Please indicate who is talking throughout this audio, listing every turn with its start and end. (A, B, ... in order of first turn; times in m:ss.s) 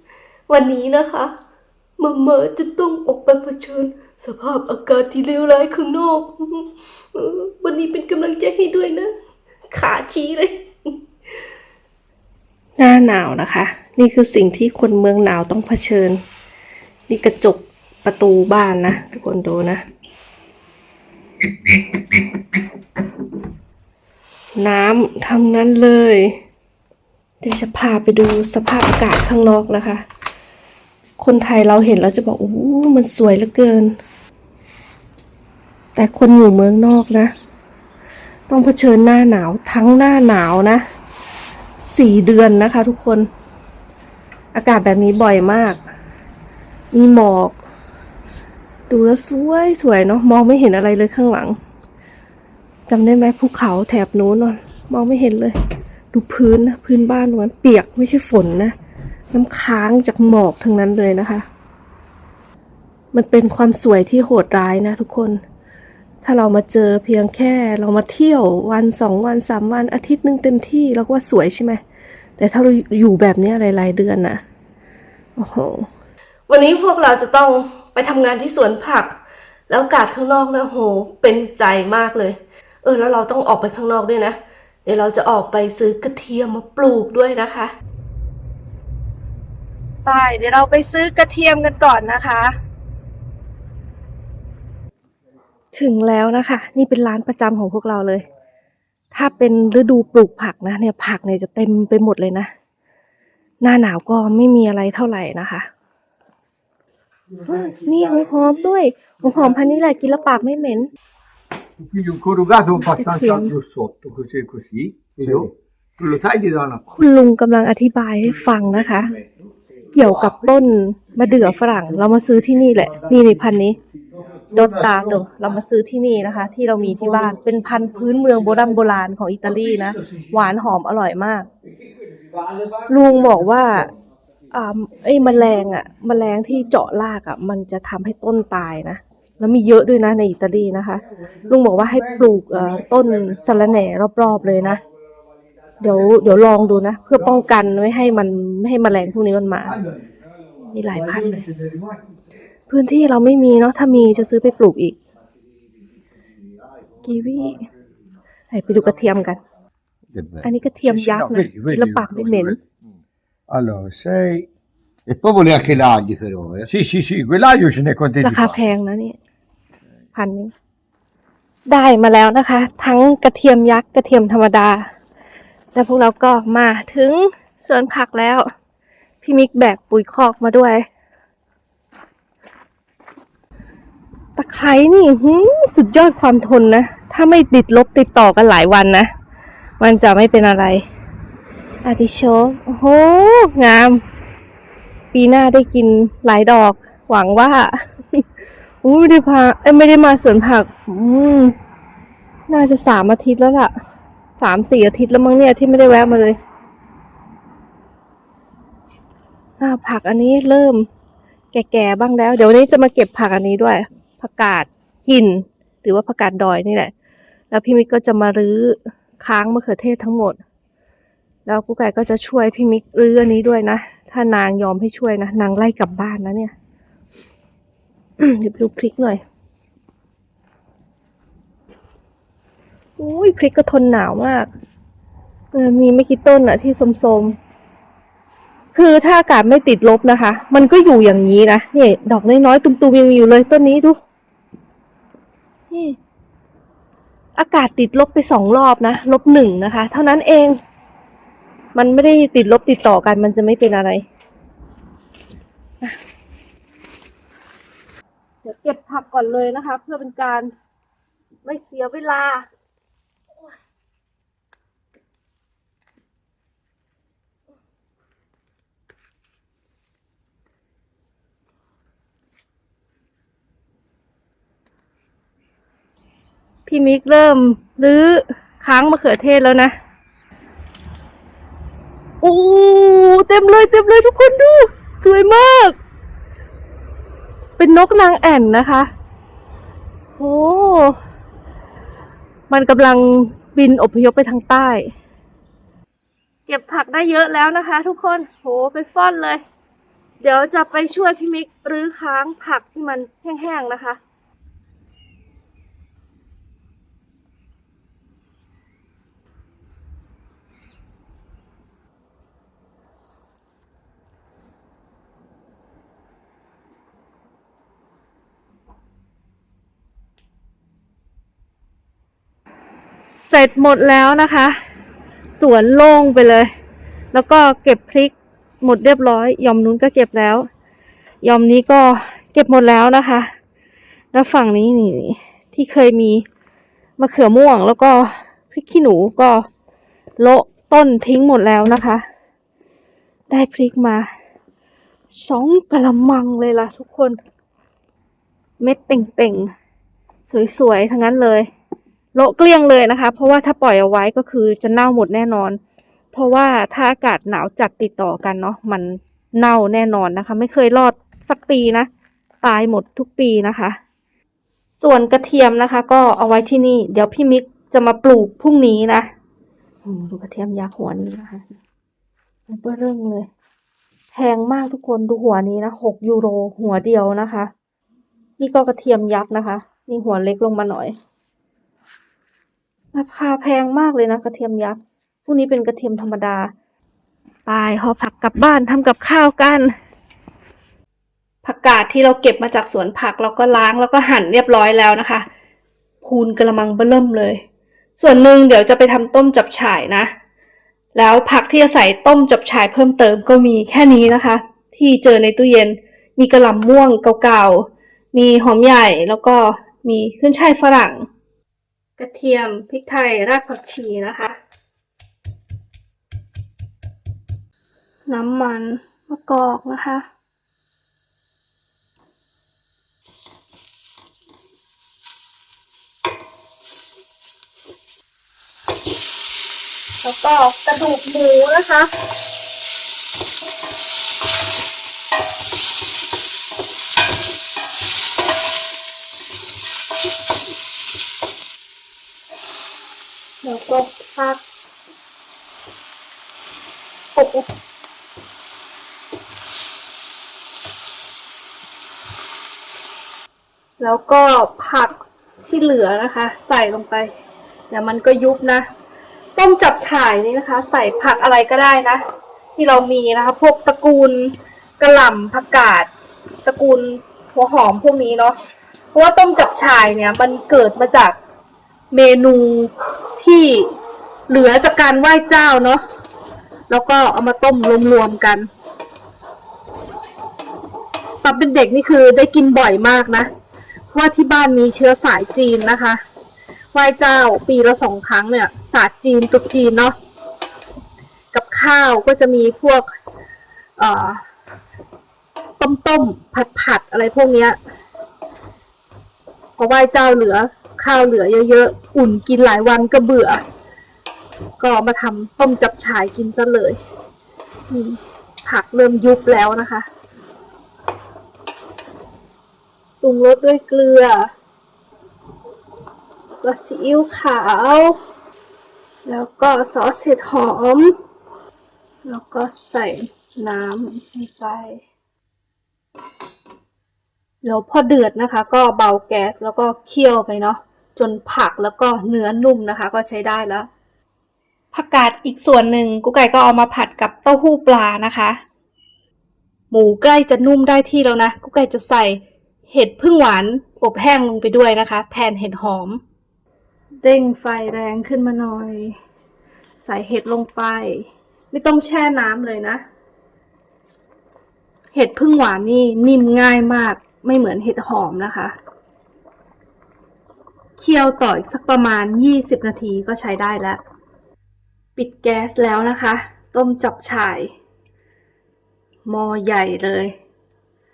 0:00.5-0:01.3 A
0:02.0-0:09.1 A
0:09.7-0:10.7 A
0:12.8-0:16.2 A
0:17.1-0:19.8 A
0:24.6-0:26.4 A
0:27.4-0:30.0 A
0:31.2-0:33.9 A
0:36.0-0:37.3 A
0:38.5-0:40.8 A
0:41.8-0:43.3 A
0:44.5-0:45.8 A
0:46.9-0:47.6 A
0:48.9-0:51.6 A
0:52.9-0:55.6 A
0:56.1-0:58.8 A
0:59.3-1:01.5 A
1:03.1-1:05.4 A
1:06.2-1:11.8 A
1:12.4-1:14.4 A
1:15.4-1:15.9 A
1:16.5-1:19.1 A
1:19.7-1:27.7 A
1:30.0-1:32.6 A
1:35.7-1:38.2 A
1:39.1-1:42.5 A
1:43.6-1:45.7 A
1:47.4-1:50.9 A
1:51.8-1:56.8 B
1:52.8-1:53.5 A
1:55.2-1:55.5 C
1:56.9-1:59.1 A
1:58.3-1:59.2 B
1:59.9-2:03.8 A
2:00.0-2:00.5 B
2:01.2-2:03.2 B
2:04.2-2:05.2 C
2:04.5-2:11.5 A
2:09.6-2:10.2 B
2:12.5-2:13.6 B
2:12.9-2:13.9 A
2:14.5-2:24.8 A
2:21.9-2:22.2 B
2:25.8-2:29.8 A
2:29.7-2:30.0 B
2:30.6-2:31.5 A
2:30.9-2:32.0 B
2:32.7-2:35.0 A
2:37.0-2:37.6 A
2:38.5-2:39.4 A
2:40.1-2:40.5 C
2:40.4-2:42.6 A
2:40.8-2:42.6 B
2:43.5-2:44.5 B
2:45.1-2:46.7 C
2:46.7-2:48.6 B
2:48.2-2:49.2 A
2:50.1-2:50.5 A
2:51.7-2:54.9 A
2:55.8-2:58.5 A
2:59.2-3:00.9 A
3:04.4-3:09.1 A
3:09.8-3:10.8 A
3:11.8-3:14.0 A
3:15.1-3:18.2 A
3:18.8-3:21.6 A
3:22.5-3:23.7 A
3:24.4-3:26.4 A
3:29.6-3:30.9 A
3:31.5-3:36.9 A
3:37.5-3:40.4 A
3:41.5-3:46.5 A
3:48.2-3:49.2 A
3:53.0-3:54.5 A
3:55.5-3:57.4 A
3:58.7-4:04.0 A
4:05.7-4:06.0 A
4:07.4-4:10.6 A
4:11.8-4:14.0 A
4:18.4-4:20.5 A
4:21.4-4:22.5 A
4:36.7-4:39.7 A
4:42.2-4:45.8 A
4:47.6-4:48.9 A
4:50.2-4:51.0 A
4:52.5-4:54.9 A
4:56.5-4:59.4 A
5:00.2-5:04.0 A
5:23.2-5:24.6 A
5:25.3-5:26.5 A
5:27.1-5:30.5 A
5:31.2-5:33.3 A
5:34.1-5:36.2 A
5:37.0-5:39.5 A
5:40.2-5:42.0 A
5:43.3-5:44.1 A
5:45.1-5:47.2 A
5:48.6-5:49.5 A
5:50.3-5:51.5 A
5:52.2-5:55.6 A
5:56.1-6:01.9 A
6:02.4-6:03.8 A
6:04.7-6:09.1 A
6:09.8-6:11.5 A
6:12.5-6:13.3 A
6:14.1-6:17.5 A
6:18.4-6:21.0 A
6:22.9-6:26.5 A
6:27.5-6:29.7 A
6:31.4-6:35.3 A
6:36.0-6:37.4 A
6:38.0-6:40.1 A
6:41.0-6:51.1 A
6:52.0-6:54.4 A
6:58.1-7:00.1 A
7:10.0-7:11.9 A
7:23.4-7:24.4 A
7:27.2-7:27.5 A
7:33.8-7:37.1 A
7:37.7-7:38.7 A
7:39.4-7:42.0 A
7:42.6-7:45.9 A
7:46.4-7:48.4 A
7:48.9-7:51.2 A
7:51.9-7:53.7 A
7:54.3-7:55.8 A
7:56.7-7:58.5 A
8:01.2-8:03.3 A
8:03.9-8:06.0 A
8:06.7-8:10.0 A
8:11.3-8:12.9 A
8:13.8-8:14.2 A
8:15.6-8:17.6 A
8:19.6-8:23.4 A
8:24.6-8:26.8 A
8:27.7-8:29.9 A
8:33.0-8:34.3 A
8:36.4-8:38.0 A
8:39.1-8:40.9 A
8:42.0-8:44.8 A
8:47.4-8:53.7 A
8:54.7-8:58.4 A
8:59.7-9:06.0 A
9:07.0-9:09.0 A
9:09.8-9:12.8 A
9:14.9-9:18.5 A
9:20.8-9:23.8 A
9:25.0-9:27.5 A
9:29.1-9:30.1 A